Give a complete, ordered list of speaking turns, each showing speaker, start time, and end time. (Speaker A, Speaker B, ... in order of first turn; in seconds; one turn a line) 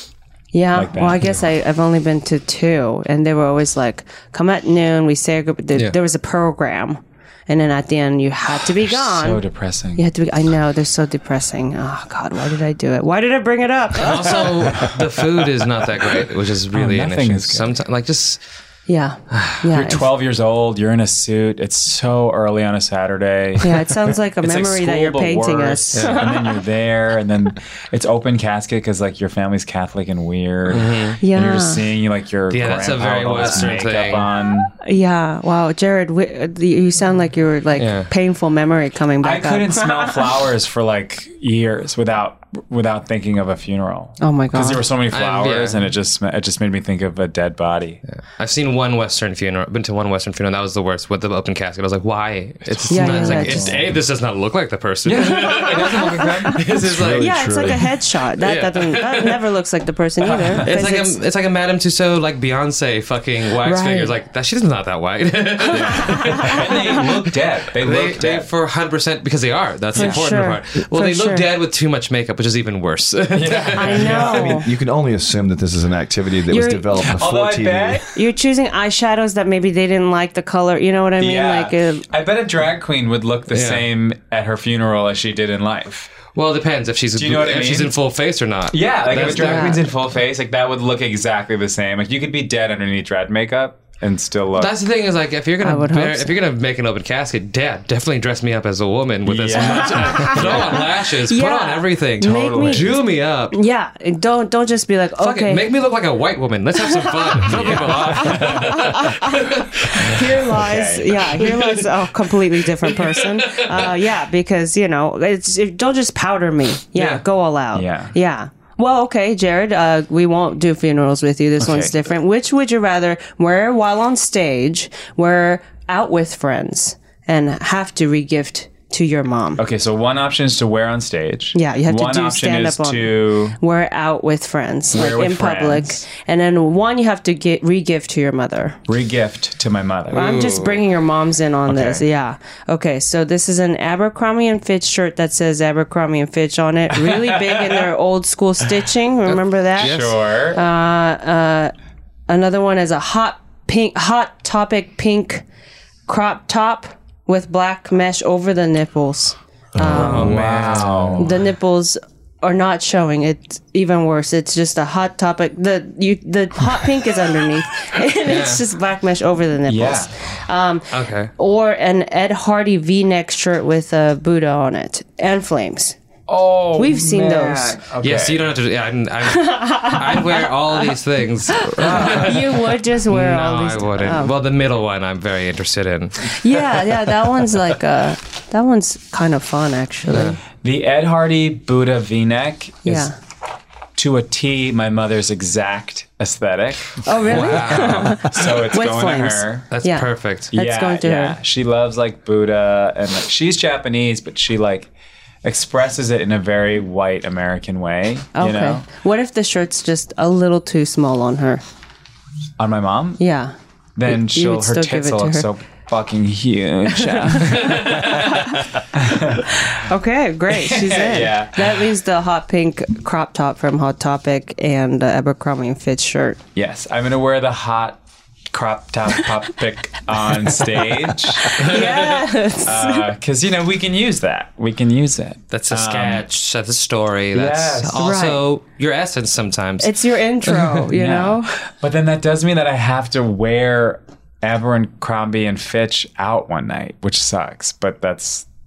Speaker A: 0.5-9.4
Speaker B: 0.7-1.3
Speaker B: 8.7-10.0
Speaker A: 9.9-14.9
Speaker C: 14.0-18.4
Speaker B: 16.7-17.7
Speaker A: 18.9-20.1
Speaker C: 19.3-19.6
Speaker B: 19.7-34.7
Speaker A: 23.6-26.4
Speaker C: 25.9-26.2
Speaker C: 30.7-31.2
Speaker A: 31.2-31.8
Speaker C: 32.5-34.3
Speaker A: 34.8-40.2
Speaker C: 37.8-38.1
Speaker B: 39.2-48.0
Speaker A: 44.2-44.9
Speaker C: 45.1-45.9
Speaker C: 48.4-57.7
Speaker B: 52.7-53.8
Speaker A: 52.9-53.7
Speaker B: 55.0-56.6
Speaker A: 55.2-56.2
Speaker D: 56.8-57.9
Speaker A: 57.2-61.1
Speaker C: 58.4-59.4
Speaker B: 60.2-60.7
Speaker C: 60.6-67.1
Speaker A: 63.6-64.1
Speaker B: 65.7-68.5
Speaker C: 67.8-74.0
Speaker B: 69.9-70.3
Speaker A: 69.9-71.4
Speaker B: 73.3-74.6
Speaker A: 73.7-74.7
Speaker D: 74.0-78.0
Speaker A: 76.5-76.9
Speaker B: 77.1-78.2
Speaker A: 78.1-82.0
Speaker B: 81.2-86.1
Speaker C: 83.5-83.8
Speaker C: 86.3-89.8
Speaker B: 87.2-87.9
Speaker B: 88.7-94.8
Speaker A: 89.3-89.8
Speaker C: 94.6-103.5
Speaker A: 95.6-96.3
Speaker B: 99.2-100.8
Speaker A: 99.8-102.9
Speaker B: 102.2-103.0
Speaker A: 103.5-105.6
Speaker C: 105.2-110.2
Speaker A: 107.1-129.6
Speaker B: 107.4-109.0
Speaker B: 110.0-111.4
Speaker C: 111.4-111.9
Speaker C: 112.8-113.8
Speaker C: 116.9-117.2
Speaker B: 117.7-118.1
Speaker B: 121.6-121.9
Speaker B: 129.6-133.6
Speaker A: 131.5-138.8
Speaker B: 134.9-136.0
Speaker B: 138.9-140.3
Speaker C: 140.1-140.8
Speaker A: 140.1-151.7
Speaker B: 141.7-142.0
Speaker C: 149.3-150.1
Speaker B: 149.8-150.6
Speaker A: 152.3-155.4
Speaker A: 156.1-160.3
Speaker D: 159.8-160.1
Speaker C: 159.8-161.2
Speaker B: 159.8-161.3
Speaker A: 161.2-175.9
Speaker C: 168.2-168.6
Speaker B: 169.7-170.2
Speaker C: 170.9-171.3
Speaker B: 176.3-178.6
Speaker A: 176.8-177.8
Speaker C: 178.0-186.4
Speaker A: 179.3-180.5
Speaker A: 181.6-184.3
Speaker B: 181.9-182.2
Speaker A: 186.2-190.4
Speaker C: 190.1-190.4
Speaker B: 190.6-193.1
Speaker A: 192.8-193.1
Speaker B: 193.9-199.7
Speaker A: 197.0-201.4
Speaker C: 197.3-198.2
Speaker C: 199.7-200.5
Speaker B: 200.5-204.9
Speaker B: 205.4-208.8
Speaker A: 208.3-211.6
Speaker B: 212.6-213.2
Speaker A: 213.2-213.5
Speaker B: 213.9-218.3
Speaker A: 214.1-215.5
Speaker A: 217.0-218.7
Speaker C: 217.5-218.2
Speaker B: 218.9-219.5
Speaker A: 219.4-226.4
Speaker B: 220.5-221.8
Speaker B: 226.5-228.0
Speaker B: 228.5-232.0
Speaker A: 231.4-233.1
Speaker B: 232.6-236.2
Speaker C: 235.5-239.9
Speaker B: 237.3-238.1
Speaker A: 238.0-238.4
Speaker A: 239.8-241.5
Speaker B: 240.9-248.4